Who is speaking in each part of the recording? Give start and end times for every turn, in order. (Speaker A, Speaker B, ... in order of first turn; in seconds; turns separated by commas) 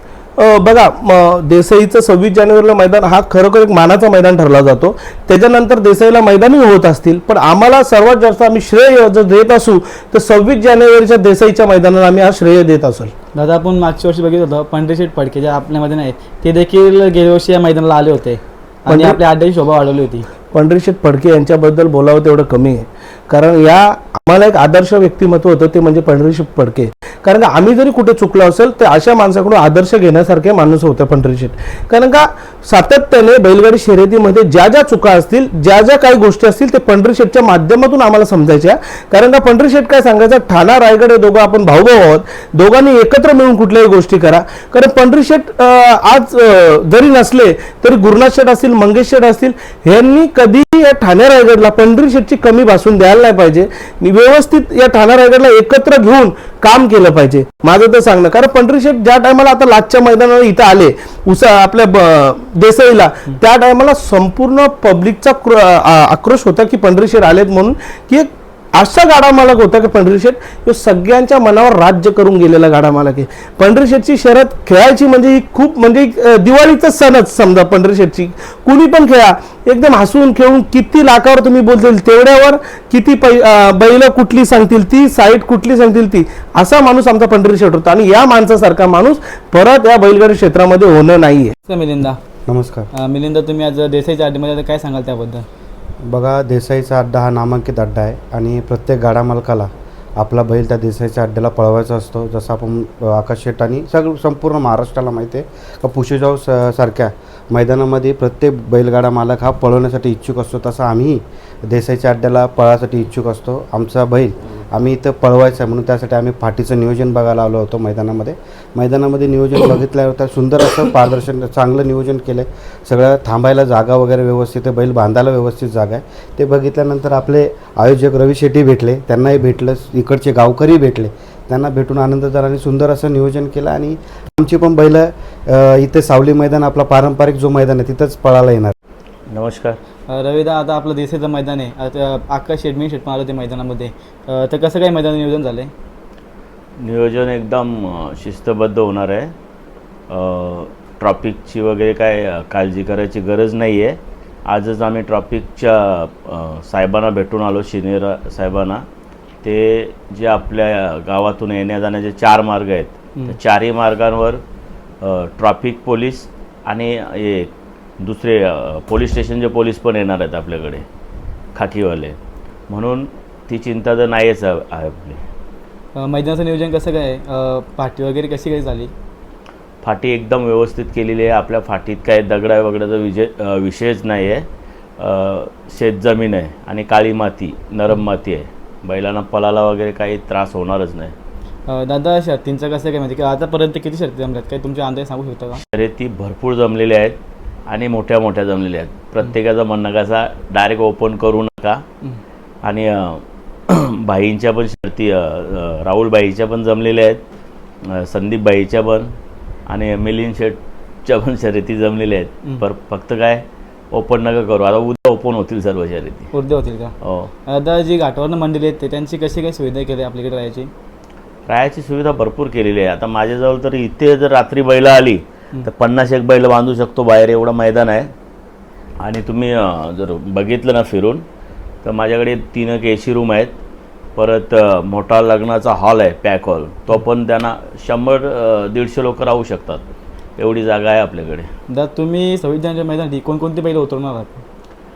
Speaker A: 0.4-13.1, Speaker B: 13.3-20.3, Speaker A: 18.9-19.2, Speaker A: 20.5-91.5, Speaker B: 91.7-92.2, Speaker C: 92.5-92.9, Speaker B: 92.9-95.5, Speaker C: 96.1-138.7, Speaker D: 139.3-139.8, Speaker B: 140.1-145.7, Speaker D: 146.8-149.3, Speaker D: 150.1-158.8, Speaker D: 159.4-164.4, Speaker D: 165.0-170.8, Speaker D: 171.6-172.2, Speaker D: 172.7-175.2, Speaker B: 176.0-178.9, Speaker D: 179.8-184.5, Speaker D: 185.0-191.1, Speaker B: 191.7-195.6, Speaker D: 195.6-201.8, Speaker D: 202.6-207.2, Speaker D: 207.8-209.1, Speaker D: 209.7-216.3, Speaker B: 216.3-216.9, Speaker D: 217.0-217.3, Speaker B: 217.5-220.7, Speaker D: 221.5-228.1, Speaker D: 229.0-231.2, Speaker D: 231.8-233.6, Speaker D: 234.2-239.8, Speaker D: 240.4-241.5, Speaker B: 241.7-244.4